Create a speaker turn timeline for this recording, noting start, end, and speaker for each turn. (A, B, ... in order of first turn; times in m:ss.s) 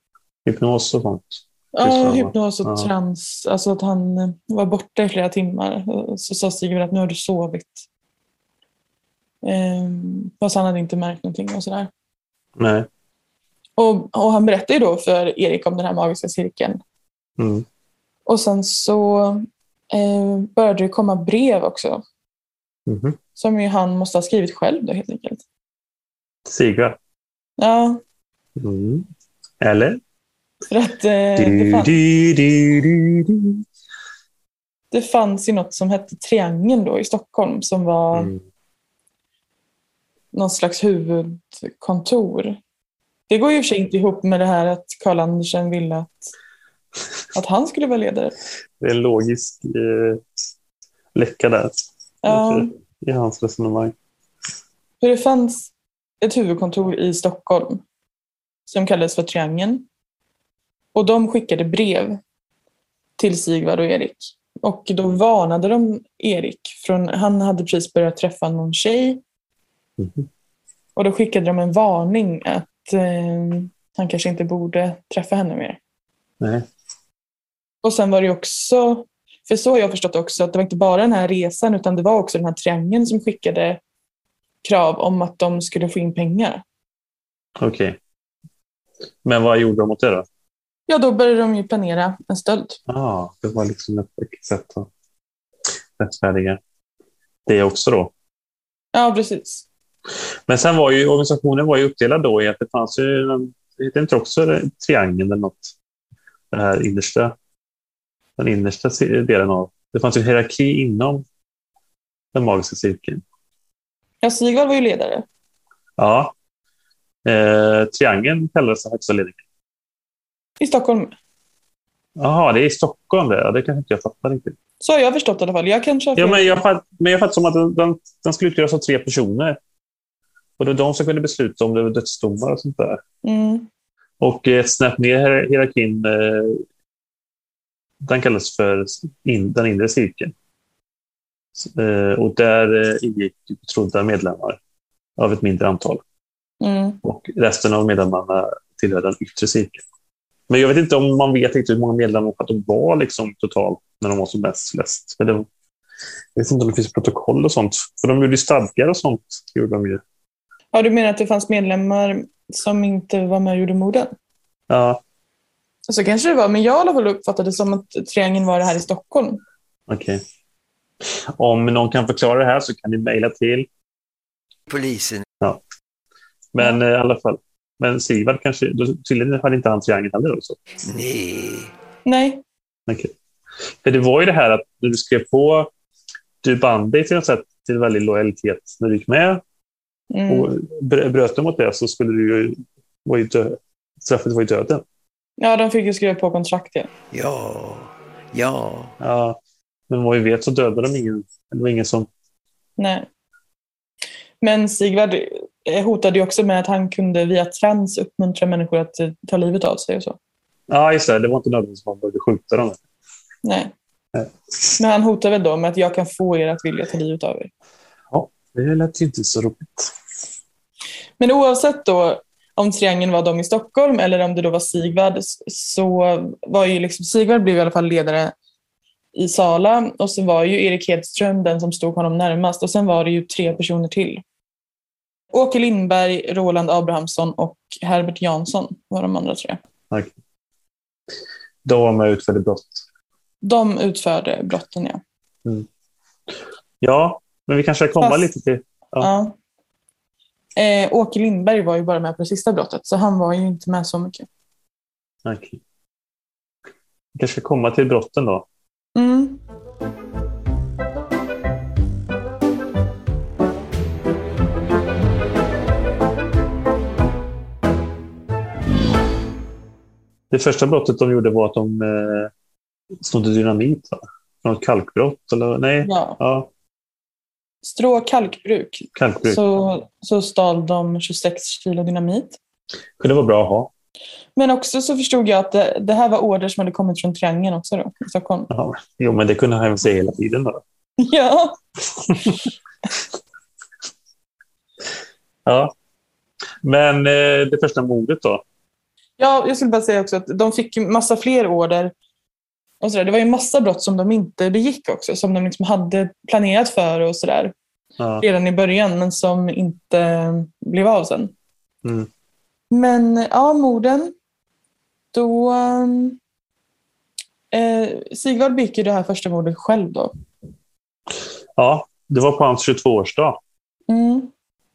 0:00.4-0:02.9 A
0:01.7-0:07.8 B
0:09.4-0:11.9 B
0:12.6-0:12.9 A
0:13.8-0:16.8 B
0:17.4-0:17.6 A
0:18.3-0:22.0 B
0:22.9-0:23.2 A
0:23.4-0:25.4 B
0:26.5-0:27.0 A
0:27.6-0:28.0 B
0:28.6-0:29.1 A
0:29.6-0:30.0 A
0:30.7-0:32.0 B
0:31.4-0:33.6 A
0:34.9-0:38.3 B
0:38.1-0:38.4 A
0:40.3-0:42.6 B
0:43.3-0:46.3 B
0:47.3-0:48.3 B
0:48.8-0:50.2 A
0:51.1-0:53.9 A
0:52.2-0:52.7 B
0:55.0-0:57.8 B
0:58.7-0:59.9 B
1:01.0-1:02.2 B
1:03.2-1:09.2 B
1:10.0-1:10.3 A
1:11.0-1:15.8 B
1:16.4-1:16.7 A
1:17.8-1:23.8 B
1:24.6-1:26.6 B
1:27.6-1:28.0 A
1:29.2-1:30.3 A
1:30.9-1:32.8 B
1:32.9-1:34.9 A
1:36.0-1:36.6 A
1:37.5-1:38.1 A
1:38.9-1:39.6 B
1:40.5-1:45.7 A
1:46.5-1:47.4 A
1:48.4-1:51.2 A
1:52.3-1:53.2 A
1:54.2-1:55.2 B
1:56.0-1:56.3 A
1:57.2-1:59.4 A
2:00.6-2:01.2 B
2:02.2-2:04.6 A
2:04.8-2:06.6 B
2:06.2-2:09.6 A
2:10.6-2:13.0 A
2:13.2-2:13.7 B
2:14.2-2:16.6 A
2:18.0-2:20.3 A
2:21.6-2:24.6 A
2:25.2-2:26.0 A
2:26.6-2:27.0 B
2:27.0-2:29.8 A
2:30.5-2:35.5 A
2:36.4-2:40.0 A
2:40.7-2:44.1 B
2:44.7-2:45.0 A
2:45.9-2:49.4 B
2:49.9-2:50.2 A
2:51.4-2:53.7 A
2:54.7-2:55.2 C
2:56.5-3:00.6 A
3:00.8-3:01.7 C
3:02.1-3:02.4 B
3:02.9-3:03.1 A
3:03.8-3:05.7 A
3:06.4-3:09.4 A
3:10.1-3:10.5 B
3:10.3-3:14.8 A
3:15.4-3:16.9 B
3:17.1-3:18.9 C
3:19.0-3:22.1 A
3:22.8-3:23.1 B
3:24.4-3:30.2 B
3:30.7-3:32.8 A
3:33.4-3:33.7 B
3:34.8-3:37.5 B
3:38.1-3:39.9 A
3:41.2-3:48.3 B
3:49.2-3:54.2 B
3:55.3-3:59.6 B
3:59.9-4:00.2 A
4:01.6-4:02.8 A
4:03.4-4:05.0 B
4:06.8-4:09.1 A
4:08.0-4:08.3 B
4:09.0-4:09.4 B
4:10.6-4:14.3 B
4:15.2-4:15.6 A
4:17.2-4:18.5 A
4:19.0-4:19.4 B
4:30.3-4:32.3 A
4:33.0-4:36.5 A
4:35.8-4:36.2 B
4:37.6-4:42.4 B
4:39.0-4:39.4 A
4:43.0-4:43.7 A
4:44.4-4:48.5 B
4:48.5-4:50.6 A
4:51.0-4:51.6 B
4:55.5-4:55.7 A
4:56.6-4:58.4 A
4:59.2-5:01.9 B
5:02.8-5:07.5 B
5:08.0-5:08.3 A
5:08.2-5:11.3 B
5:11.8-5:12.1 A
5:12.7-5:14.1 B
5:15.1-5:16.2 B
5:17.5-5:20.1 B
5:21.6-5:23.4 A
5:23.9-5:24.3 B